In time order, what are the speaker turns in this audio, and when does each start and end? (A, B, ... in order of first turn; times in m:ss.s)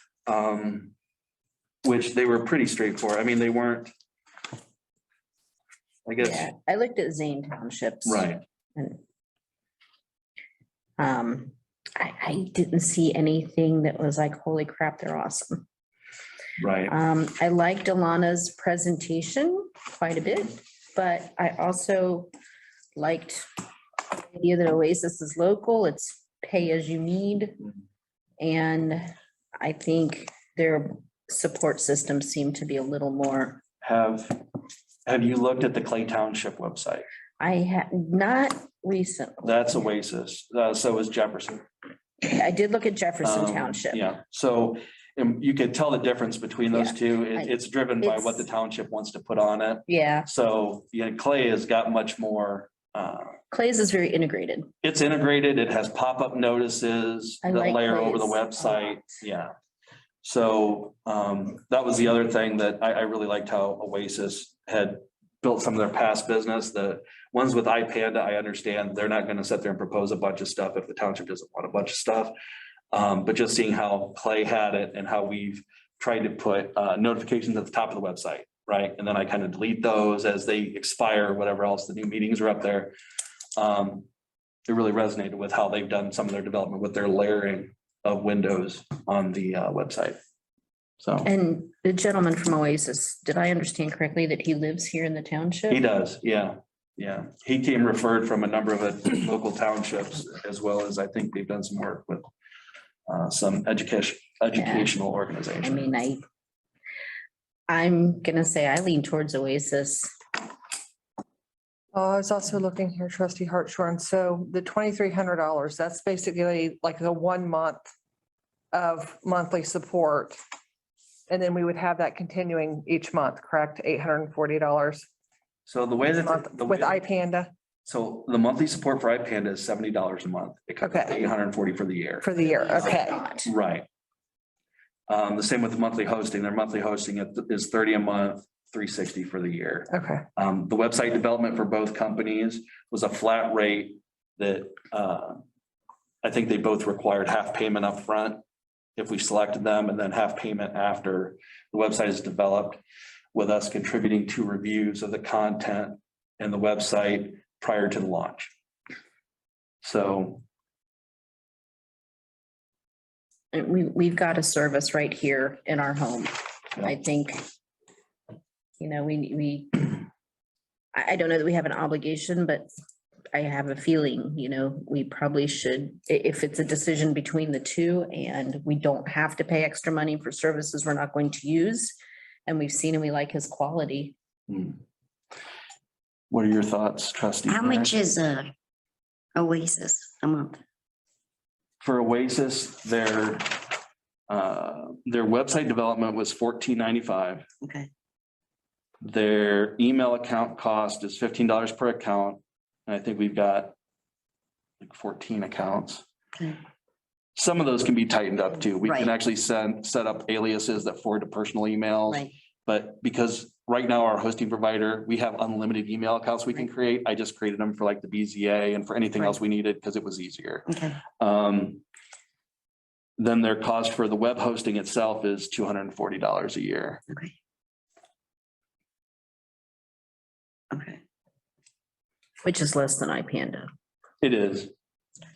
0:00.2-0:00.9 A
0:01.8-0:03.9 A
0:06.0-0:06.5 A
0:06.2-0:09.0 B
0:08.0-0:08.4 A
0:11.0-0:15.6 B
0:16.6-0:17.0 A
0:16.9-0:22.3 B
0:23.0-0:23.4 B
0:24.1-0:27.6 B
0:28.4-0:33.6 B
0:33.8-0:34.4 A
0:35.0-0:37.0 A
0:37.4-0:39.7 B
0:39.4-0:41.6 A
0:42.2-0:44.1 B
0:43.2-0:53.4 A
0:46.7-0:48.5 B
0:49.9-0:50.3 B
0:53.5-0:54.7 B
0:54.8-0:59.5 A
0:57.4-0:59.1 B
1:00.2-1:12.3 A
1:12.9-1:22.9 A
1:23.6-1:24.1 A
1:24.7-1:30.2 A
1:31.0-1:31.3 A
1:31.2-1:35.8 B
1:35.7-1:42.3 A
1:43.1-1:45.9 A
1:44.6-1:44.9 B
1:45.6-1:46.2 B
1:47.7-1:50.1 B
1:51.9-1:57.9 C
1:58.7-2:00.4 C
2:01.3-2:05.0 C
2:05.6-2:07.0 A
2:06.0-2:07.5 C
2:07.8-2:12.3 A
2:10.8-2:11.2 C
2:12.2-2:13.2 C
2:12.4-2:13.5 B
2:13.4-2:13.9 A
2:15.1-2:25.4 A
2:19.9-2:20.2 C
2:26.2-2:28.4 A
2:29.0-2:32.8 A
2:33.3-2:38.5 A
2:39.8-2:40.4 A
2:43.5-2:47.4 B
2:48.8-2:50.0 B
2:50.9-2:52.7 B
2:53.3-3:01.9 B
3:02.5-3:04.1 B
3:04.5-3:04.8 A
3:06.3-3:07.9 A
3:07.5-3:08.5 D
3:09.3-3:10.6 D
3:11.8-3:13.8 A
3:14.3-3:17.4 A
3:17.6-3:17.9 D
3:19.0-3:23.7 A
3:24.8-3:26.0 A
3:26.3-3:26.6 D
3:27.3-3:41.8 A
3:28.8-3:29.1 D
3:40.7-3:41.0 D
3:43.2-3:47.0 A
3:47.1-3:47.3 D
3:50.7-3:51.0 D
3:52.4-3:53.7 B
3:54.2-3:54.7 A